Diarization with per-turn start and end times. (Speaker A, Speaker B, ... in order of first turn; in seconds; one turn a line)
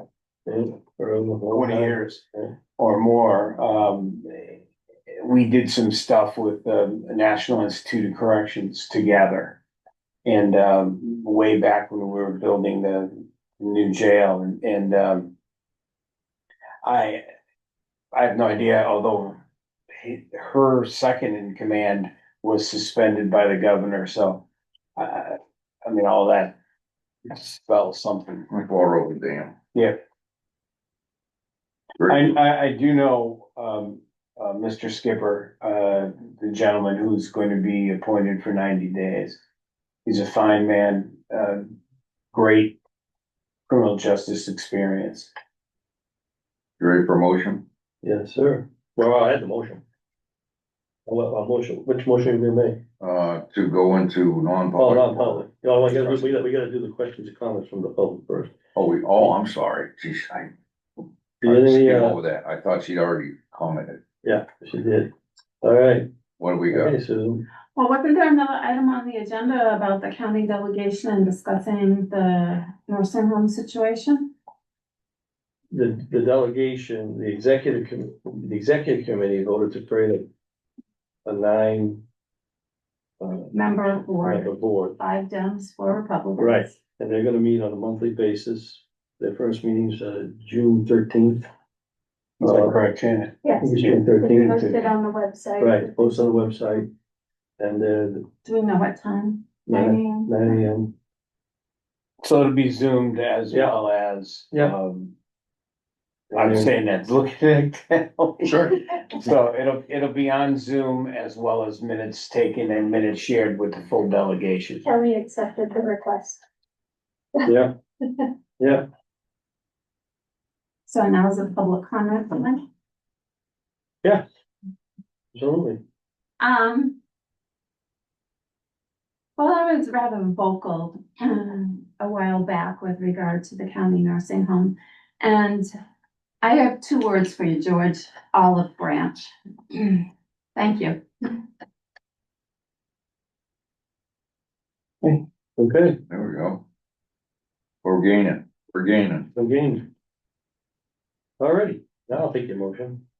Speaker A: 0.5-2.5
Speaker B: 1.5-2.2
Speaker B: 2.8-9.6
Speaker B: 10.2-15.3
Speaker B: 16.8-17.2
Speaker B: 18.1-19.4
Speaker B: 19.9-24.4
Speaker B: 24.9-26.6
Speaker B: 27.2-28.5
Speaker C: 28.5-29.5
Speaker C: 32.0-32.3
Speaker B: 32.1-39.4
Speaker B: 40.0-41.7
Speaker B: 42.3-42.8
Speaker B: 43.7-45.3
Speaker C: 46.8-47.6
Speaker A: 48.0-49.8
Speaker A: 51.1-52.8
Speaker C: 53.0-55.4
Speaker A: 54.8-58.5
Speaker C: 56.0-56.2
Speaker C: 58.7-60.5
Speaker A: 61.4-62.1
Speaker C: 61.4-64.0
Speaker A: 64.2-65.1
Speaker A: 65.6-66.1
Speaker C: 66.4-67.0
Speaker A: 66.7-67.4
Speaker D: 67.7-74.3
Speaker A: 75.7-80.3
Speaker A: 81.2-82.0
Speaker A: 83.2-83.5
Speaker D: 83.5-86.8
Speaker A: 84.2-85.0
Speaker A: 86.4-91.4
Speaker B: 92.4-94.0
Speaker A: 92.4-92.7
Speaker E: 93.4-96.1
Speaker A: 93.6-94.9
Speaker A: 95.6-96.9
Speaker A: 97.6-98.2
Speaker D: 98.4-100.5
Speaker A: 99.7-100.9
Speaker B: 102.2-105.1
Speaker A: 103.5-103.8
Speaker A: 106.3-106.7
Speaker B: 106.3-114.8
Speaker C: 108.4-108.7
Speaker E: 114.8-116.4
Speaker A: 117.5-117.7
Speaker A: 118.6-118.8
Speaker D: 120.9-122.6
Speaker A: 125.3-125.8
Speaker D: 126.4-127.0
Speaker D: 129.4-135.7
Speaker D: 136.4-141.4
Speaker A: 145.0-146.0
Speaker C: 146.1-146.6
Speaker C: 147.8-149.3
Speaker A: 149.3-149.9
Speaker A: 151.4-153.0